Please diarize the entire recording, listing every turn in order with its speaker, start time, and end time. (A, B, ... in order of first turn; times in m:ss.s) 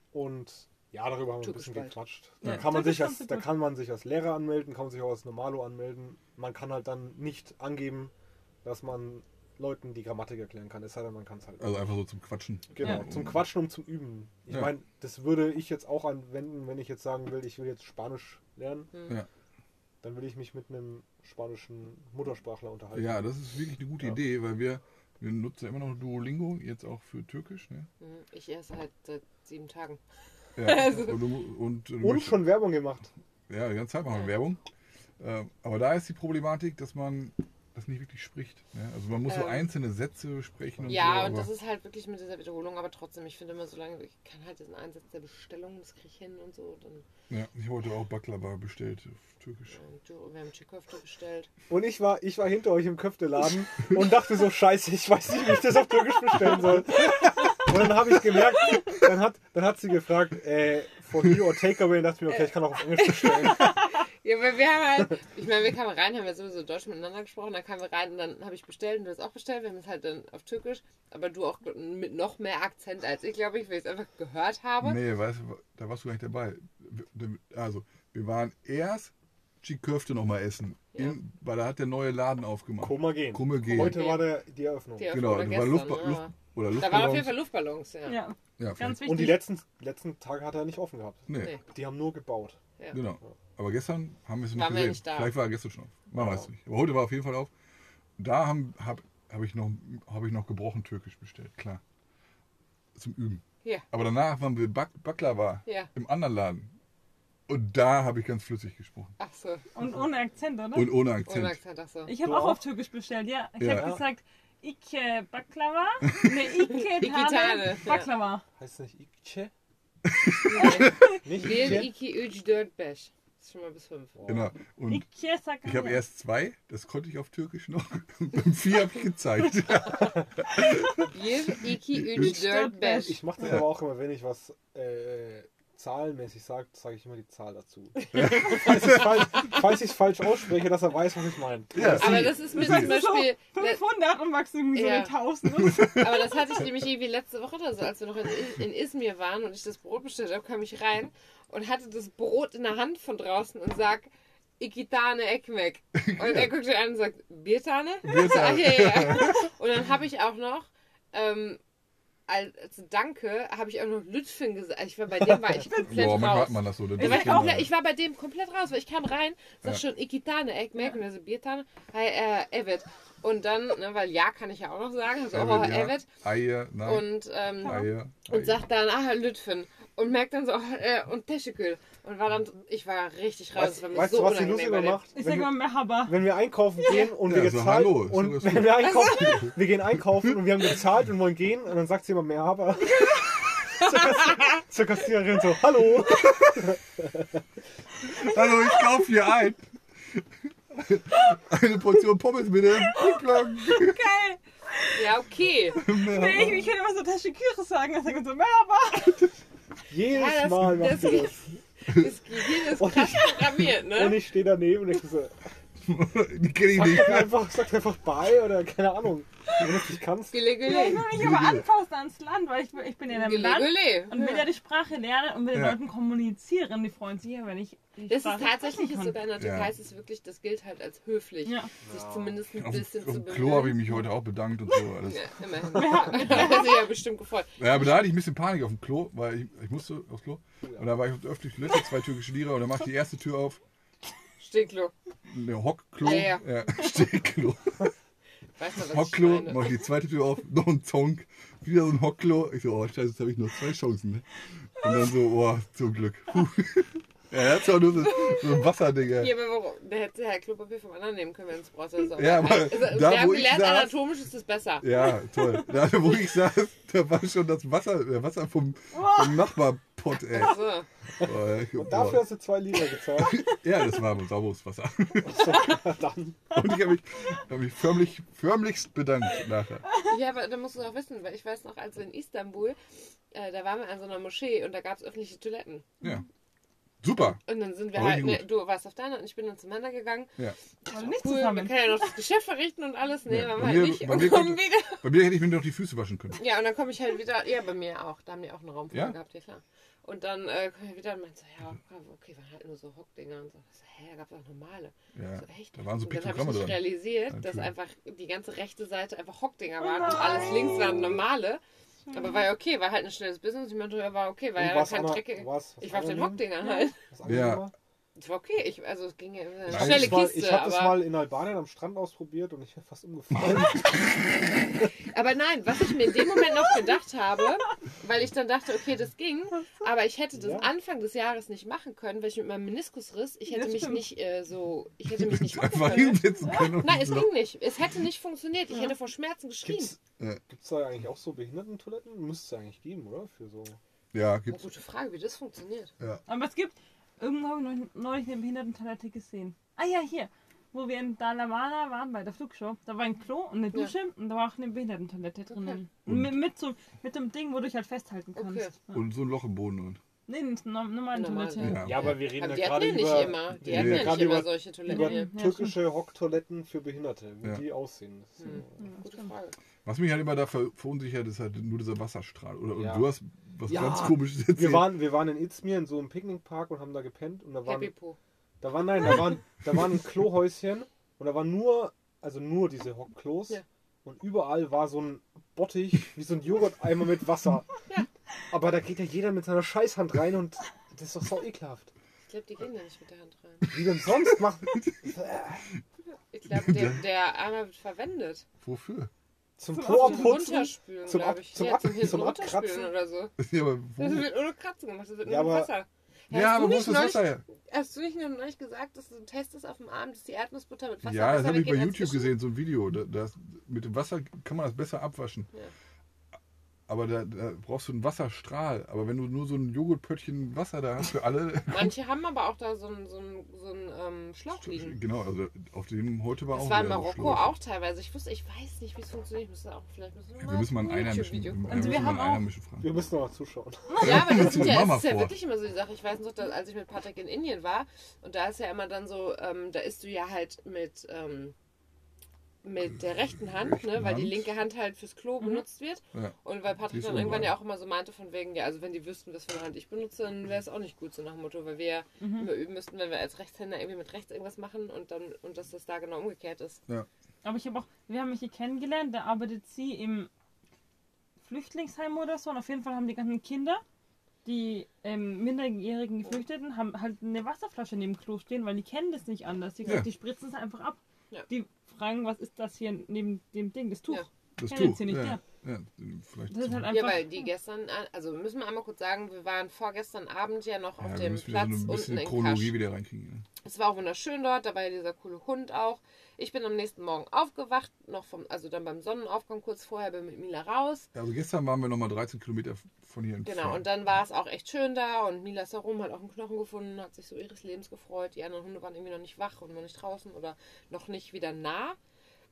0:00.1-0:08.1 A
0:01.4-0:02.0 B
0:02.4-0:02.8 C
0:02.4-0:03.6 D
0:08.6-0:11.9 A
0:11.6-0:13.4 C
0:12.7-0:18.9 A
0:18.9-0:19.2 B
0:20.0-0:23.3 A
0:22.9-0:27.9 C
0:28.0-0:30.0 B
0:30.6-0:32.5 C
0:30.6-0:31.2 B
0:32.0-0:33.1 A
0:33.5-0:34.6 C
0:35.2-0:41.5 C
0:39.3-0:39.7 B
0:40.8-0:41.3 A
0:40.9-0:47.0 B
0:47.3-0:49.8 C
0:49.7-0:51.5 B
0:51.7-1:03.8 A
1:03.0-1:15.0 B
1:14.8-1:24.0 C
1:22.8-1:25.2 A
1:23.7-1:24.3 B
1:25.0-1:28.2 B
1:25.1-1:27.3 C
1:28.1-1:29.5 D
1:28.6-1:29.0 C
1:29.0-1:32.6 A
1:31.3-1:31.5 C
1:32.9-1:37.5 C
1:34.5-1:35.3 B
1:36.1-1:36.5 A
1:38.2-1:41.8 C
1:42.9-1:46.7 C
1:45.6-1:45.9 B
1:47.5-1:49.1 C
1:49.2-1:49.6 B
1:49.7-1:50.9 D
1:50.7-1:51.6 C
1:51.2-1:52.1 B
1:52.0-1:58.4 D
1:52.2-1:52.6 A
1:53.6-1:53.9 C
1:53.7-1:54.0 A
1:56.7-1:58.1 B
1:58.6-1:59.5 A
2:00.0-2:00.9 C
2:00.5-2:04.1 B
2:01.1-2:01.9 A
2:04.2-2:04.5 A
2:04.3-2:05.0 C
2:04.9-2:06.0 D
2:05.6-2:11.0 C
2:11.1-2:13.2 B
2:11.9-2:12.4 C
2:12.1-2:13.2 D
2:13.0-2:22.4 A
2:13.4-2:13.8 C
2:18.1-2:19.0 B
2:18.2-2:19.0 C
2:21.7-2:23.0 C
2:22.0-2:23.8 B
2:22.2-2:26.2 D
2:24.7-2:25.2 B
2:25.6-2:26.1 C
2:25.9-2:41.6 B
2:35.9-2:36.5 C
2:38.0-2:39.5 C
2:42.3-2:56.1 B
2:45.8-2:47.7 C
2:47.0-2:47.5 D
2:55.3-2:57.1 C
2:56.8-3:05.0 B
2:57.6-2:58.6 C
2:57.6-2:57.9 D
3:03.5-3:17.4 A
3:05.1-3:06.2 D
3:06.9-3:07.1 B
3:07.2-3:09.5 C
3:16.2-3:16.7 C
3:18.0-3:24.0 C
3:23.8-3:24.4 B
3:24.9-3:25.8 B
3:25.7-3:26.7 C
3:25.8-3:29.3 D
3:29.9-3:31.5 A
3:30.1-3:34.2 B
3:32.8-3:35.4 A
3:35.8-3:37.4 C
3:36.7-3:40.5 A
3:40.3-3:41.1 B
3:40.6-3:49.2 D
3:41.1-3:41.6 C
3:43.1-3:44.5 B
3:45.5-3:45.8 C
3:48.1-3:54.0 B
3:49.4-3:49.7 C
3:51.4-3:51.7 D
3:51.8-3:52.4 A
3:52.6-3:55.3 C
3:55.0-3:57.8 B
3:55.7-3:56.9 D
3:57.6-4:03.6 C
4:04.4-4:04.9 B
4:05.3-4:07.9 C
4:06.0-4:06.4 B
4:08.6-4:09.8 B
4:08.8-4:19.3 C
4:18.1-4:24.9 B
4:22.2-4:23.9 C
4:24.8-4:30.7 C
4:28.9-4:29.5 D
4:30.3-4:30.9 B
4:31.2-4:32.3 C
4:31.7-4:33.5 A
4:33.2-4:35.7 C
4:35.2-4:36.5 A
4:36.5-4:39.8 C
4:40.0-4:42.8 B
4:43.3-4:45.8 B
4:47.0-4:48.4 C
4:47.4-4:55.1 B
4:50.9-4:52.1 D
4:53.3-4:56.4 C
4:56.4-5:17.0 B
5:05.1-5:07.7 C
5:09.8-5:11.0 D
5:12.1-5:12.4 D
5:14.6-5:16.5 A
5:16.6-5:16.9 D
5:17.1-5:17.7 A
5:17.2-5:17.7 C
5:18.2-5:21.0 B
5:19.7-5:20.3 C
5:19.7-5:24.9 A
5:25.1-5:39.9 B
5:30.3-5:30.7 A
5:33.5-5:34.0 D
5:35.1-5:37.3 C
5:39.6-5:43.8 A
5:44.1-5:44.6 C
5:44.5-5:45.9 B
5:46.2-5:59.0 D
5:55.5-5:55.8 B
5:56.1-5:56.4 C
5:58.4-5:58.7 B
5:58.9-6:00.0 C
6:00.3-6:01.9 D
6:01.1-6:05.3 B
6:01.6-6:02.2 C
6:01.8-6:08.8 A
6:03.6-6:04.4 C
6:04.9-6:05.8 D
6:08.4-6:09.6 B
6:09.8-6:15.0 C
6:12.7-6:13.1 A
6:13.6-6:17.9 A
6:17.6-6:18.2 B
6:18.6-6:27.7 A
6:28.5-6:31.9 A
6:32.3-6:33.7 B
6:33.7-6:35.7 A
6:34.7-6:35.1 C
6:36.3-6:38.4 B
6:36.5-6:37.0 C
6:38.6-6:39.1 C
6:39.6-6:42.9 A
6:39.7-6:40.6 D
6:39.8-6:43.4 B
6:43.4-6:44.3 C
6:44.0-6:52.3 B
6:45.2-6:45.7 A
6:46.3-6:47.4 C
6:51.0-6:55.5 C
6:56.9-7:01.9 C
7:01.7-7:05.0 B
7:04.6-7:07.5 C
7:06.5-7:12.0 B
7:10.4-7:13.0 C
7:11.7-7:12.4 D
7:12.8-7:14.5 A
7:14.0-7:21.5 B
7:14.0-7:15.3 C
7:22.6-7:36.8 B
7:23.6-7:24.5 C
7:26.9-7:27.5 C
7:32.2-7:32.5 D
7:37.4-7:40.3 D
7:41.4-7:43.8 D
7:44.4-7:55.4 D
7:54.6-7:56.9 C
7:56.5-7:57.4 D
7:56.9-8:02.7 B
8:01.0-8:03.4 C
8:03.6-8:11.1 B
8:11.1-8:13.8 C
8:13.4-8:22.0 B